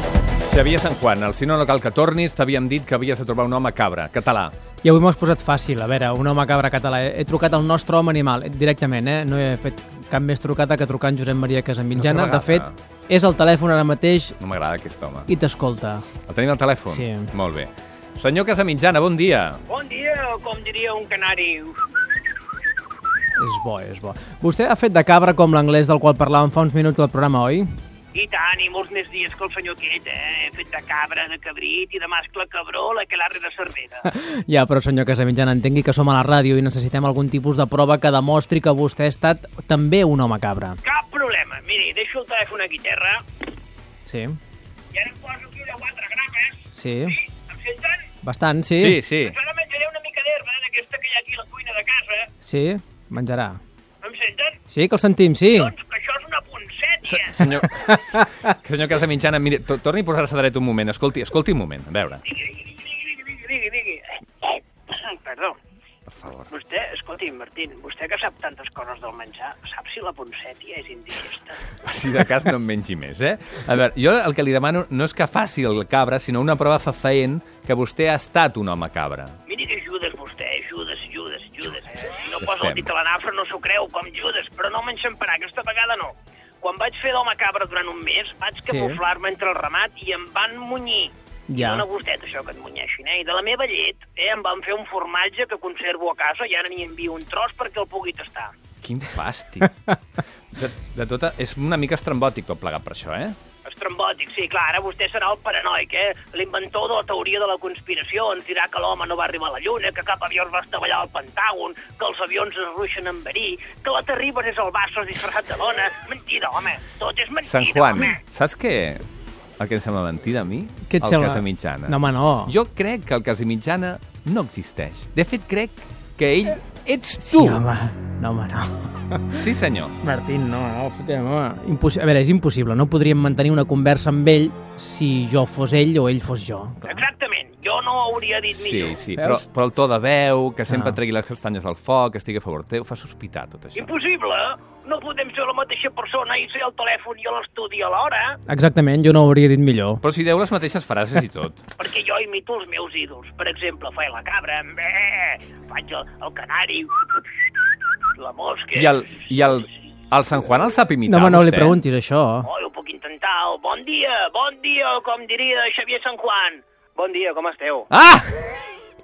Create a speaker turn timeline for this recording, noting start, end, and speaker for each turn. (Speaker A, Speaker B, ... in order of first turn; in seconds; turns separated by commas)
Speaker A: 0.4-4.5, Speaker B: 4.8-14.4, Speaker A: 11.9-12.8, Speaker A: 14.4-15.3, Speaker B: 15.3-16.1, Speaker A: 16.3-19.6, Speaker B: 16.9-17.3, Speaker C: 19.7-22.1, Speaker B: 23.4-27.7, Speaker C: 28.1-34.1, Speaker B: 34.0-40.8, Speaker C: 40.8-43.2, Speaker B: 44.1-44.4, Speaker C: 44.9-48.1, Speaker B: 46.7-47.2, Speaker B: 48.2-49.0, Speaker A: 48.8-49.4, Speaker C: 49.2-52.3, Speaker B: 52.4-53.6, Speaker C: 54.0-54.6, Speaker B: 54.7-55.7, Speaker C: 55.5-57.5, Speaker A: 57.0-62.2, Speaker C: 62.3-65.6, Speaker A: 66.1-66.5, Speaker C: 66.5-71.6, Speaker A: 71.8-79.4, Speaker C: 79.5-98.5, Speaker A: 82.4-82.9, Speaker B: 88.6-89.0, Speaker B: 91.5-91.8, Speaker A: 98.8-99.8, Speaker A: 100.5-103.4, Speaker C: 103.7-118.2, Speaker A: 117.4-119.1, Speaker A: 119.6-127.6, Speaker B: 120.9-122.5, Speaker B: 127.2-129.4, Speaker A: 129.3-130.0, Speaker B: 130.0-137.1, Speaker C: 136.8-139.1, Speaker A: 138.5-143.9, Speaker B: 139.2-139.4, Speaker B: 140.7-141.0, Speaker C: 143.8-148.4, Speaker B: 148.5-150.0, Speaker A: 150.0-151.7, Speaker C: 151.8-157.6, Speaker C: 158.2-159.7, Speaker A: 158.8-161.8, Speaker B: 161.1-162.5, Speaker C: 162.4-167.9, Speaker A: 167.9-168.5